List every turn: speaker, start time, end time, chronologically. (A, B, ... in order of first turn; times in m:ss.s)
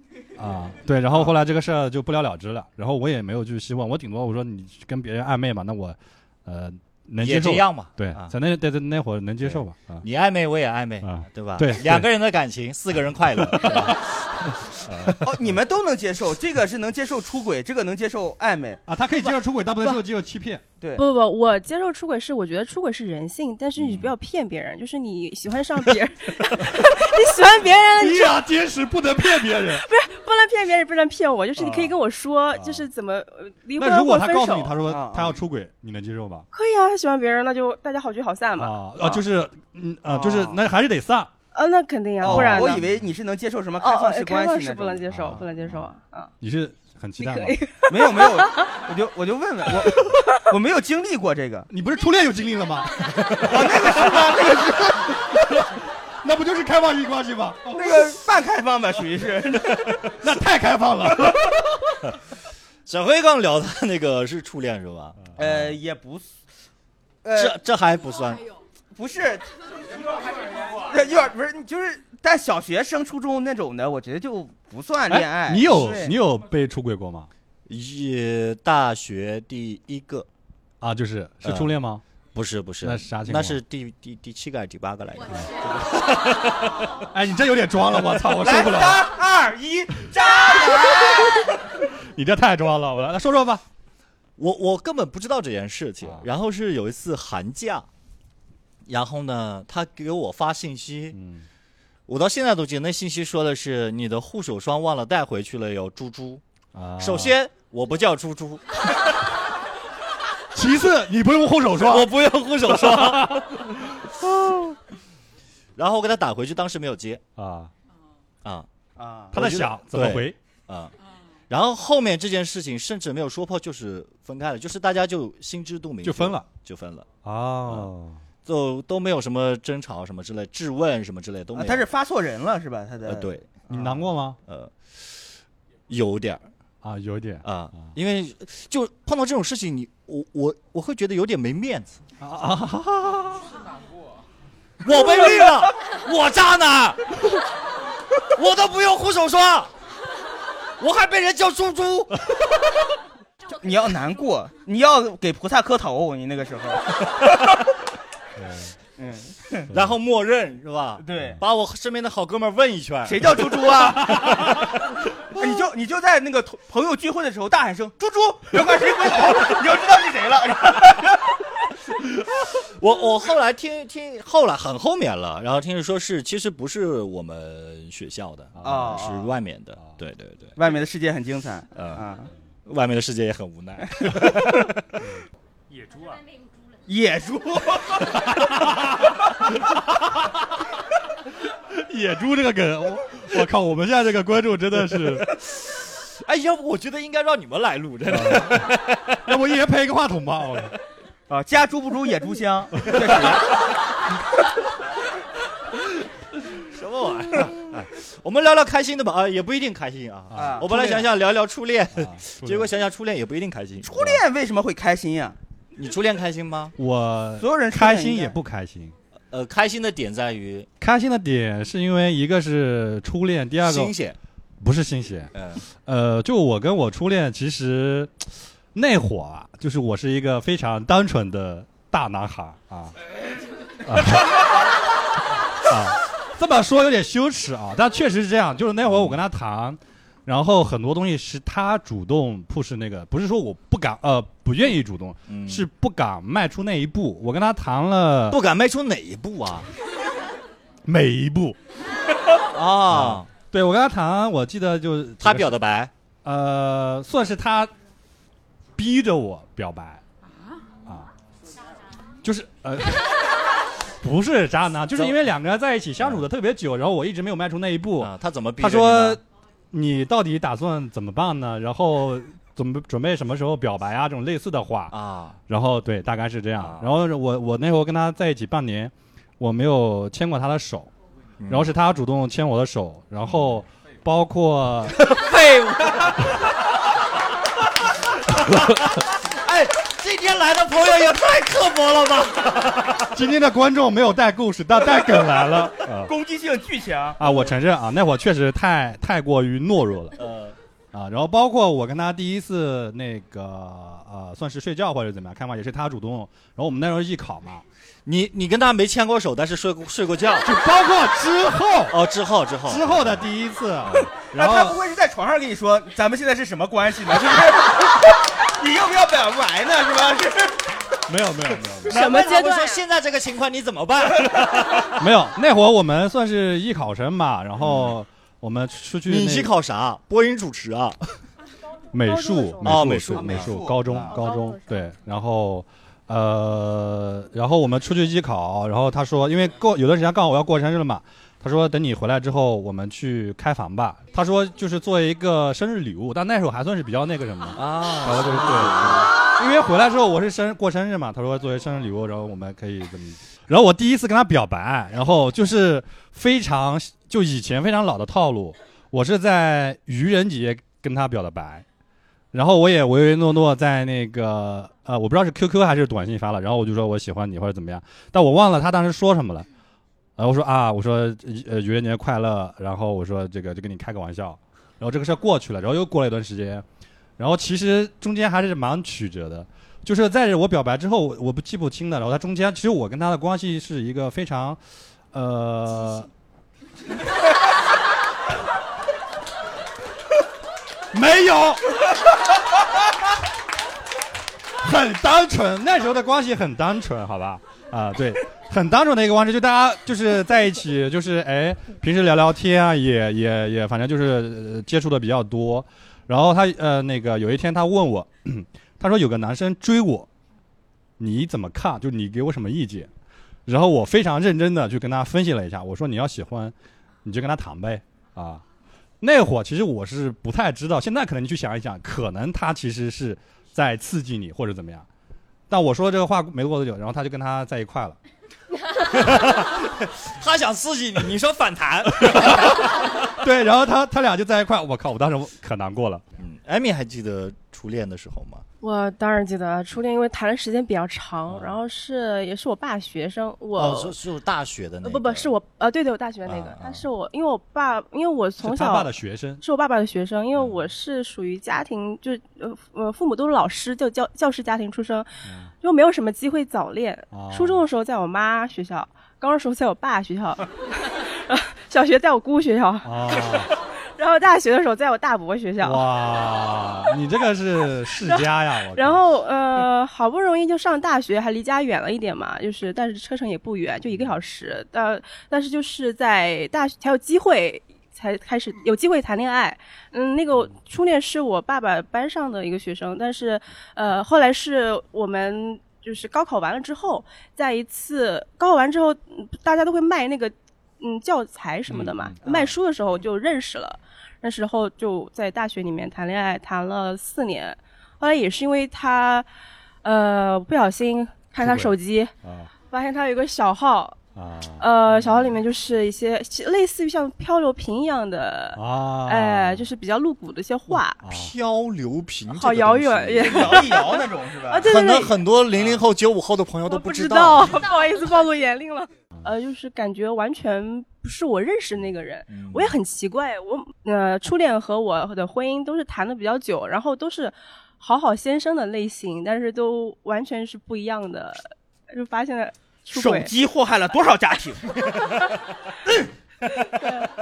0:00.4-0:10.0 A
0:07.2-0:08.3 B
0:09.4-0:14.0 B
0:11.0-0:12.1 A
0:13.3-0:15.3 A
0:14.8-0:15.2 B
0:15.2-0:19.3 C
0:18.9-0:20.6 A
0:21.0-0:28.4 D
0:27.9-0:29.8 A
0:29.5-0:34.8 D
0:31.6-0:31.9 A
0:32.5-0:32.9 A
0:33.8-0:36.5 A
0:34.8-0:35.4 C
0:36.5-0:38.7 D
0:38.6-0:41.3 A
0:40.1-0:40.6 C
0:41.5-0:42.8 D
0:42.2-0:45.4 C
0:42.2-0:43.0 A
0:43.8-0:46.3 D
0:45.1-0:45.8 A
0:46.4-0:47.6 A
0:47.2-0:48.6 D
0:47.9-0:51.7 C
0:51.7-0:55.6 A
0:53.4-0:55.1 C
0:56.2-0:58.0 A
0:57.7-1:00.0 C
1:00.1-1:02.0 A
1:02.8-1:05.8 B
1:05.4-1:06.3 C
1:07.2-1:07.6 C
1:07.3-1:08.5 B
1:08.9-1:09.5 C
1:10.7-1:16.2 C
1:15.1-1:17.3 A
1:17.7-1:20.3 B
1:20.8-1:22.0 A
1:21.4-1:21.7 B
1:22.3-1:27.0 B
1:22.8-1:23.6 A
1:27.1-1:29.1 A
1:28.3-1:31.5 C
1:30.9-1:31.5 A
1:32.1-1:33.6 A
1:34.4-1:37.9 B
1:38.8-1:41.2 B
1:41.1-1:41.4 A
1:42.1-1:46.4 B
1:46.7-1:47.3 A
1:47.0-1:49.1 B
1:50.5-1:52.1 A
1:51.7-1:53.5 B
1:52.6-1:54.1 A
1:55.8-1:57.2 B
1:57.4-1:57.7 A
1:59.0-1:59.3 C
1:59.3-2:00.9 B
1:59.3-2:00.4 A
2:01.5-2:07.1 B
2:06.0-2:06.5 A
2:07.2-2:08.2 A
2:08.4-2:11.9 B
2:11.5-2:13.8 C
2:13.0-2:13.5 B
2:13.7-2:14.4 A
2:14.4-2:15.2 B
2:15.9-2:16.4 B
2:16.8-2:17.9 A
2:17.4-2:22.0 B
2:22.2-2:23.4 A
2:24.8-2:27.1 B
2:28.3-2:29.7 B
2:30.8-2:32.2 B
2:33.6-2:37.5 C
2:38.4-2:38.7 A
2:39.0-2:39.7 C
2:39.7-2:44.9 B
2:41.0-2:41.4 C
2:43.0-2:44.3 C
2:44.1-2:44.5 A
2:45.3-2:51.4 C
2:52.3-3:00.6 B
2:58.6-2:59.0 A
2:58.6-2:59.3 C
3:00.6-3:02.3 C
3:01.7-3:02.0 B
3:02.6-3:05.0 B
3:06.9-3:08.2 C
3:08.2-3:09.1 A
3:09.7-3:10.3 A
3:11.7-3:15.4 A
3:15.4-3:19.3 B
3:18.1-3:20.8 A
3:21.3-3:23.6 C
3:26.5-3:34.2 B
3:30.3-3:30.8 A
3:30.4-3:31.0 C
3:32.0-3:32.7 A
3:33.8-3:35.4 C
3:35.7-3:36.7 B
3:36.8-3:38.9 A
3:37.4-3:38.3 C
3:39.3-3:40.7 B
3:40.8-3:43.9 A
3:43.6-3:44.2 B
3:44.6-3:45.3 A
3:45.3-3:45.6 B
3:45.8-3:52.9 A
3:53.8-3:54.5 A
3:55.6-4:08.4 A
3:58.8-3:59.2 B
4:05.3-4:05.7 B
4:08.3-4:09.7 B
4:10.8-4:11.6 A
4:12.5-4:13.3 B
4:12.9-4:15.6 A
4:15.2-4:15.9 B
4:16.2-4:17.7 A
4:18.8-4:20.0 A
4:22.2-4:23.4 A
4:24.0-4:35.0 A
4:26.0-4:26.2 B
4:28.0-4:29.2 B
4:34.9-4:35.4 B
4:35.5-4:40.9 A
4:36.6-4:36.9 B
4:41.4-4:41.7 B
4:41.5-4:45.1 A
4:43.3-4:43.6 B
4:45.0-4:46.6 B
4:48.2-4:53.2 B
4:53.1-4:56.1 A
4:56.0-4:57.2 C
4:57.2-5:00.2 A
5:00.2-5:00.6 B
5:00.9-5:07.6 A
5:08.0-5:10.5 B
5:10.4-5:12.0 A
5:11.9-5:13.3 B
5:12.7-5:14.8 A
5:13.8-5:14.1 B
5:14.3-5:20.6 C
5:21.1-5:21.9 A
5:21.8-5:25.0 B
5:21.9-5:22.8 D
5:25.0-5:29.5 A
5:27.6-5:27.9 B
5:29.1-5:31.0 B
5:31.9-6:01.6 A
5:32.0-5:32.8 D
5:32.6-5:33.6 B
5:33.1-5:34.1 C
5:34.1-5:34.8 D
5:47.5-5:49.1 B
6:02.3-6:09.5 A
6:10.2-6:16.6 A
6:17.2-6:24.6 A
6:25.1-6:26.1 A
6:30.9-6:31.6 A
6:34.6-6:50.1 A
6:51.0-6:52.9 A
6:53.5-6:56.5 A
6:57.0-6:58.4 A
6:59.0-7:04.8 A
7:05.5-7:08.0 A
7:08.8-7:13.1 B
7:12.0-7:16.0 A
7:16.2-7:18.4 B
7:18.6-7:23.9 D
7:21.3-7:21.6 B
7:23.5-7:25.3 B
7:24.8-7:28.9 D
7:26.2-7:26.8 B
7:28.4-7:29.4 A
7:29.4-7:35.1 D
7:35.2-7:35.5 A
7:35.6-7:45.8 D
7:37.1-7:37.6 A
7:42.8-7:43.5 A
7:45.6-7:49.0 A
7:48.0-8:19.3 D
8:11.7-8:12.1 A
8:12.2-8:12.5 C
8:19.8-8:22.1 D
8:21.4-8:22.5 A
8:22.7-8:24.0 D
8:24.1-8:25.4 A
8:24.6-8:31.0 D
8:28.6-8:29.7 A
8:31.0-8:31.3 A
8:31.0-8:33.7 B
8:32.3-8:35.2 D
8:33.2-8:34.7 C
8:34.6-8:37.6 B
8:36.7-8:53.3 D
8:42.3-8:42.8 B
8:52.9-8:54.7 C
8:56.7-8:57.1 D